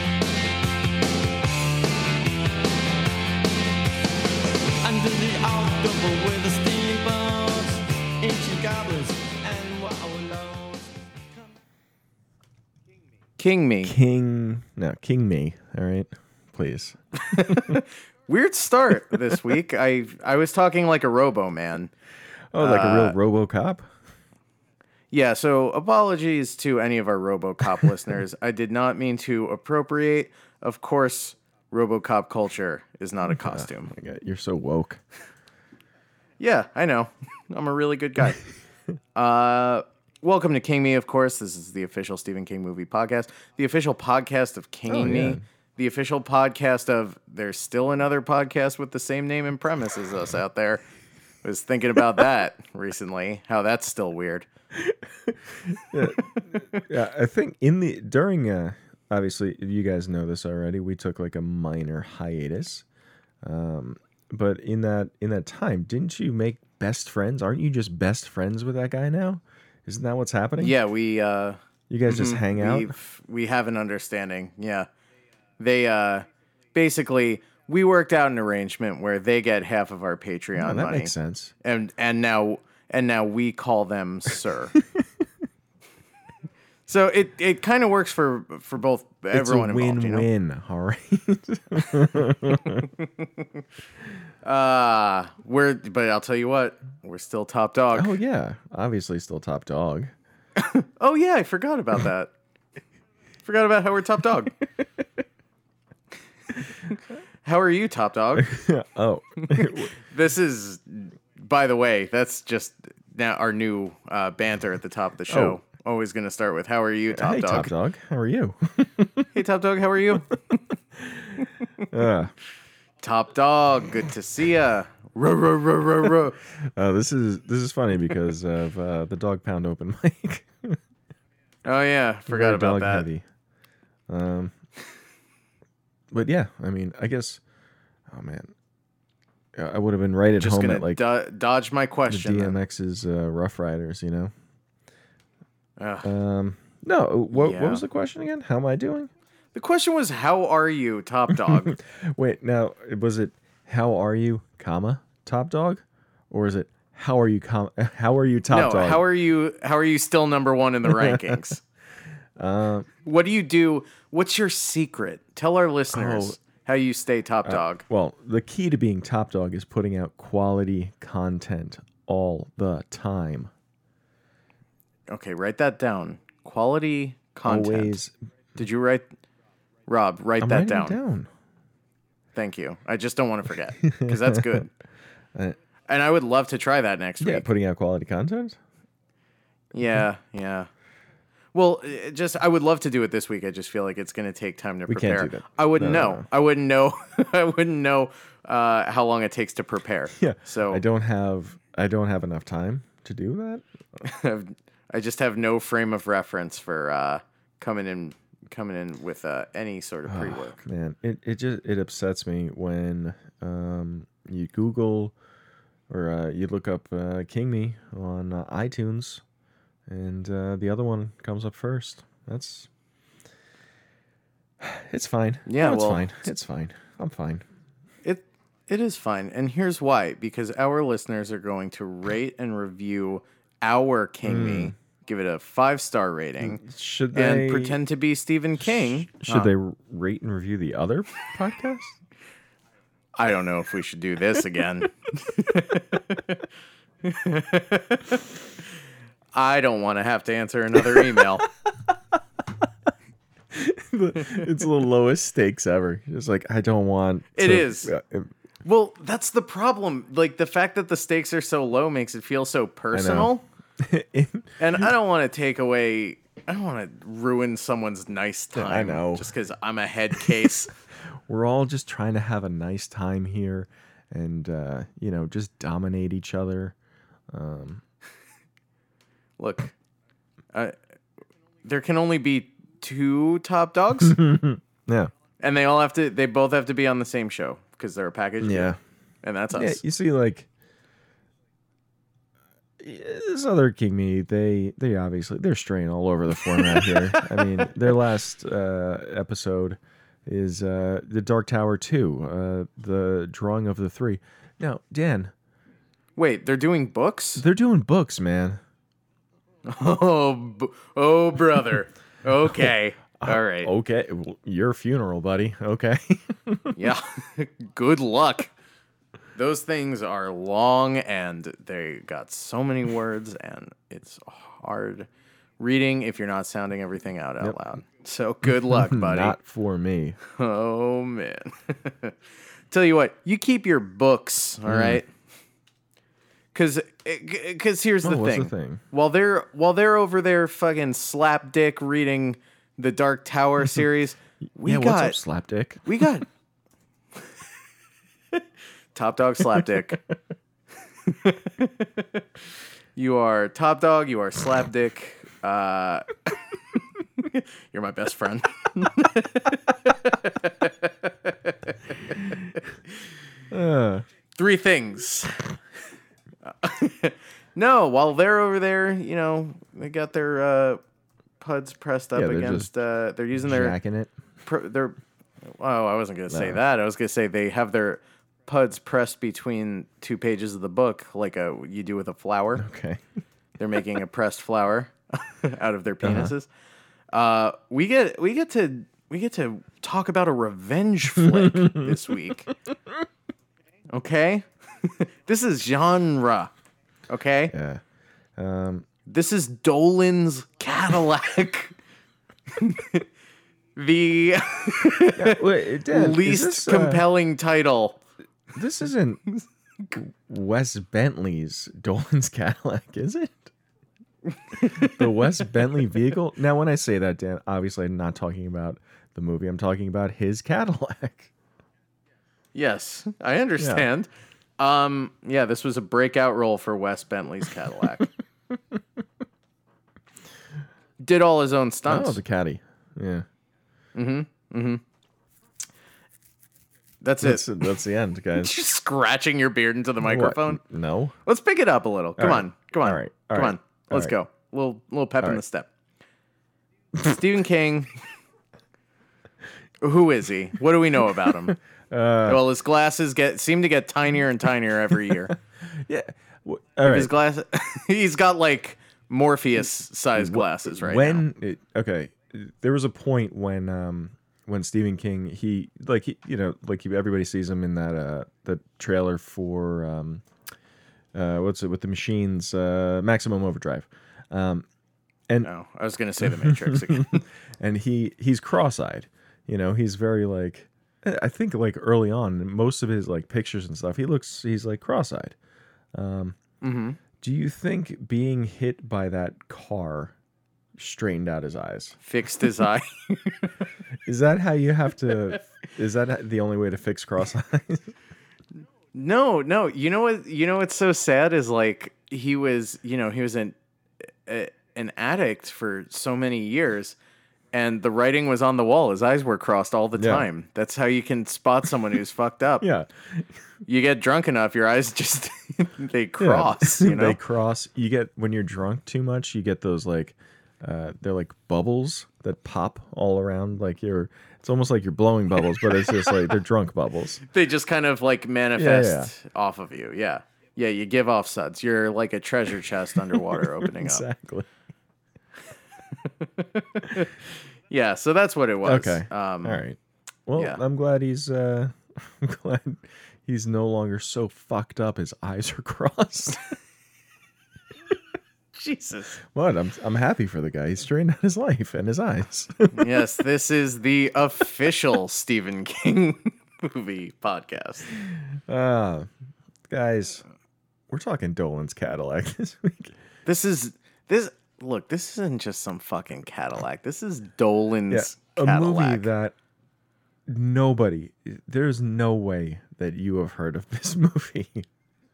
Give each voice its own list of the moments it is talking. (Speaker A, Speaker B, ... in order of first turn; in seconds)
Speaker A: 4.8-11.0
Speaker B: 13.4-13.9, 17.3-21.9, 22.6-23.2, 25.1-33.9, 36.4-38.4, 39.1-50.8, 51.4-54.5, 56.0-56.8, 70.6-74.9, 75.6-81.1, 81.6-84.8, 86.9-90.3, 92.7-93.5, 94.4-98.2, 100.6-102.3, 103.4-104.5, 107.4-108.5, 109.4-117.7, 119.3-120.3, 123.0-126.4, 131.6-133.1, 140.4-142.6, 145.8-146.1, 147.3-147.8, 149.5-151.8, 158.5-161.6, 163.0-167.8, 175.1-178.0, 178.6-179.1, 179.9-181.0, 182.3-184.7, 185.9-187.5, 189.7-190.7, 191.5-200.8, 204.0-210.6, 225.4-226.3, 228.0-236.6, 237.1-239.5, 243.2-246.4, 247.0-248.3, 249.3-251.4, 257.3-257.9, 258.6-263.4, 264.6-270.7, 279.4-279.7, 281.6-284.3, 285.4-289.8, 306.1-307.4, 309.6-313.7, 316.7-318.5, 319.4-325.1, 325.6-329.4, 330.2-332.1, 332.7-335.1, 336.5-345.2, 345.8-346.2, 348.9-350.0, 351.1-352.2, 352.9-356.2, 357.2-362.4, 364.4-365.5, 366.5-370.8, 371.4-373.8, 374.4-382.6, 383.6-386.5, 387.1-392.5, 393.9-396.5, 397.1-397.5, 399.1-401.7, 402.6-403.1, 403.8-408.0, 414.5-415.0, 422.5-428.1, 431.0-432.2, 433.9-434.8, 437.0-437.7, 438.3-440.6, 441.2-445.7, 447.0-447.9, 449.8-451.6, 452.2-455.3, 456.8-461.2, 475.4-477.2, 486.6-487.0, 492.0-493.5, 498.9-503.5, 504.3-506.9, 507.5-512.7, 513.6-517.2, 527.2-534.0, 536.0-537.1, 537.7-539.6, 548.5-549.2, 552.7-557.9, 563.2-569.1
Speaker C: 13.8-17.8, 22.5-23.9, 33.3-35.0, 44.9-45.4, 54.7-62.8, 63.4-70.8, 71.9-72.9, 80.6-81.5, 89.3-92.9, 97.9-100.1, 108.3-109.9, 115.3-115.6, 117.1-119.3, 121.0-122.3, 126.7-130.8, 132.3-133.2, 134.1-134.5, 136.1-137.4, 138.1-138.5, 139.6-141.0, 142.1-144.3, 146.0-149.1, 151.5-159.0, 160.8-161.5, 162.4-162.9, 165.9-166.4, 167.4-173.5, 177.4-178.1, 180.4-181.3, 183.9-184.6, 187.2-188.6, 194.9-196.2, 200.2-203.6, 210.1-215.1, 215.9-219.2, 219.9-222.7, 224.6-227.4, 234.2-234.7, 236.4-237.8, 238.6-241.9, 250.9-251.2, 253.5-258.3, 262.9-264.6, 268.5-269.3, 271.1-276.7, 277.3-277.8, 284.0-285.1, 288.4-288.8, 289.5-290.5, 292.8-305.3, 307.4-308.6, 313.2-316.7, 328.6-330.2, 334.7-335.0, 338.0-338.8, 344.6-345.9, 363.5-364.0, 372.1-372.7, 373.4-374.1, 376.3-376.6, 382.6-383.0, 386.0-386.3, 391.2-391.9, 397.5-397.8, 398.4-398.9, 405.1-407.1, 408.5-409.2, 409.9-413.5, 414.6-421.3, 423.6-423.9, 431.9-433.2, 437.2-438.5, 440.0-441.1, 442.2-444.1, 451.5-452.4, 455.7-457.1, 460.1-470.2, 471.1-474.6, 476.2-485.4, 485.9-486.4, 487.2-490.1, 490.8-491.9, 494.1-497.9, 510.0-510.2, 512.6-513.2, 516.2-527.2, 528.5-529.1, 533.1-534.5, 538.6-546.5, 549.3-552.9, 558.5-559.1, 559.7-560.2, 560.9-562.9, 567.9-569.3, 570.3-574.7